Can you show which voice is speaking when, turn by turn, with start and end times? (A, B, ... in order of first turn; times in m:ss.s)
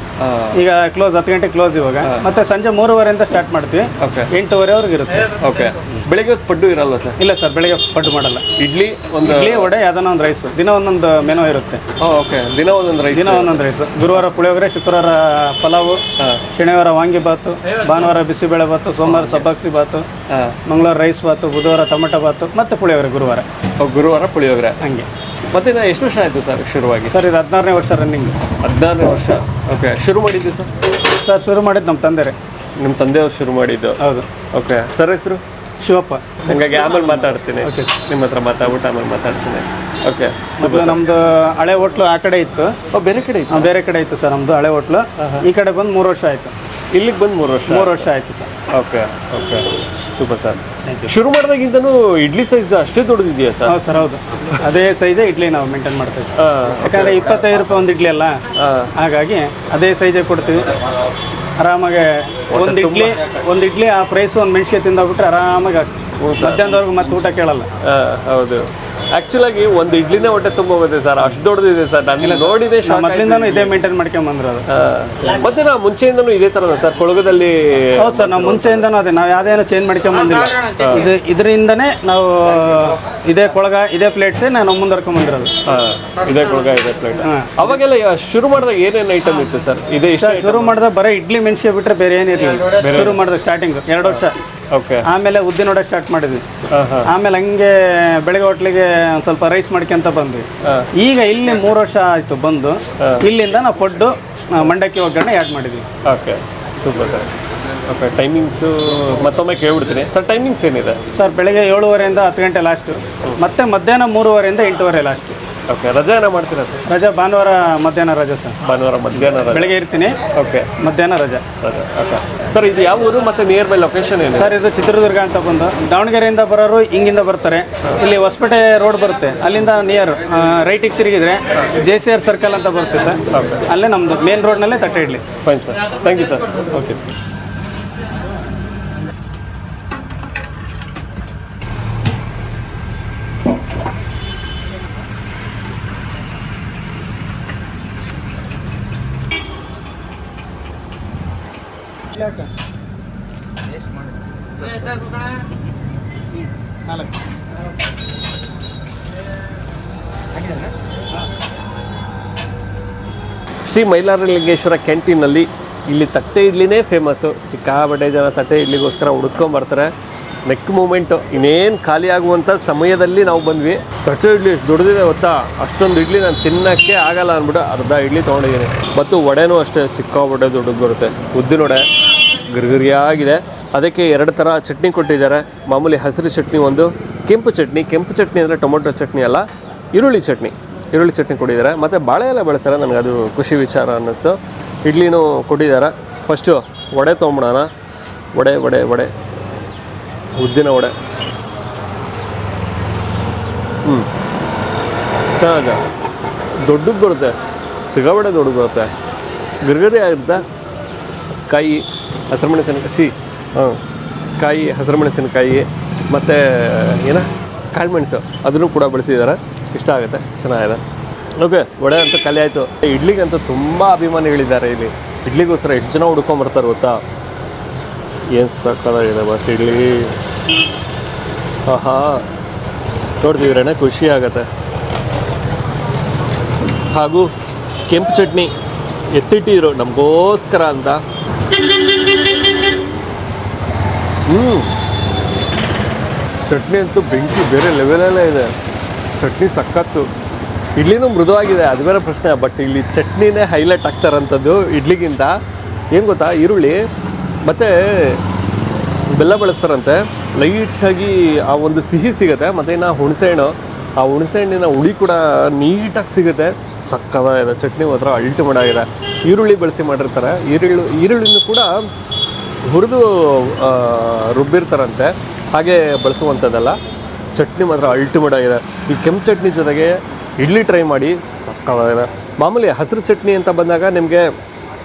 0:00.2-0:00.6 A
0:00.5-0:05.3 B
0:04.0-0:04.3 A
0:05.3-0:07.2 A
0:07.2-0:08.4 B
0:08.6-0:09.7 A
0:09.2-0:11.8 B
0:12.0-0:13.6 A
0:13.1-0:20.0 B
0:19.0-0:19.4 A
0:20.3-0:20.6 A
0:20.7-0:23.4 B
0:23.8-0:24.8 A
0:24.8-0:25.1 B
0:25.5-0:27.1 A
0:27.1-0:28.4 B
0:28.6-0:30.7 A
0:31.2-0:32.4 B
0:32.8-0:34.0 A
0:34.0-0:34.3 B
0:34.5-0:35.4 A
0:35.8-0:38.0 B
0:36.4-0:41.0 A
0:40.6-0:42.7 B
0:42.9-0:43.7 A
0:43.5-0:46.5 B
0:45.2-0:45.4 A
0:46.9-0:48.1 A
0:47.7-0:48.5 B
0:48.7-0:53.8 A
0:50.8-0:51.1 B
0:53.6-0:58.4 B
0:56.4-0:57.6 A
0:58.6-0:58.9 A
0:59.0-1:00.7 B
1:01.6-1:07.7 B
1:02.5-1:03.4 A
1:06.2-1:07.1 A
1:07.8-1:13.7 A
1:12.2-1:14.7 B
1:14.7-1:18.8 A
1:18.0-1:25.5 B
1:20.7-1:21.1 A
1:25.6-1:30.8 A
1:27.2-1:27.5 B
1:30.2-1:34.4 B
1:32.7-1:33.2 A
1:34.0-1:35.0 A
1:35.0-1:36.4 B
1:36.7-1:37.1 A
1:37.0-1:45.8 B
1:40.6-1:40.9 A
1:43.0-1:43.2 A
1:46.0-1:47.3 A
1:47.8-1:51.0 A
1:51.1-1:55.4 B
1:55.7-1:56.8 A
1:56.8-1:58.6 B
1:58.6-1:59.7 A
1:59.2-2:00.2 B
2:00.3-2:00.7 A
2:00.8-2:01.4 B
2:01.6-2:04.6 A
2:04.3-2:15.2 B
2:13.3-2:13.6 A
2:15.4-2:16.7 A
2:16.7-2:17.1 B
2:43.6-2:49.9 A
2:50.4-3:17.7 A
3:18.3-3:19.1 A
3:20.4-3:20.9 A
3:25.4-3:25.8 A
3:26.6-3:27.3 A
3:27.9-3:28.9 A
3:29.6-3:30.4 A
3:31.5-3:33.8 A
3:34.4-3:40.8 A
3:41.4-3:47.0 A
3:48.3-3:50.1 A
3:51.6-3:52.2 A
3:53.2-3:54.5 A
3:56.9-3:57.3 A
3:57.9-3:58.5 A
3:59.1-4:01.0 A
4:04.3-4:04.7 A
4:06.5-4:08.5 A
4:09.2-4:10.1 A
4:10.8-4:15.4 A
4:15.9-4:16.8 A
4:17.4-4:18.2 A
4:19.1-4:31.7 A
4:32.6-4:36.8 A
4:37.4-4:44.3 A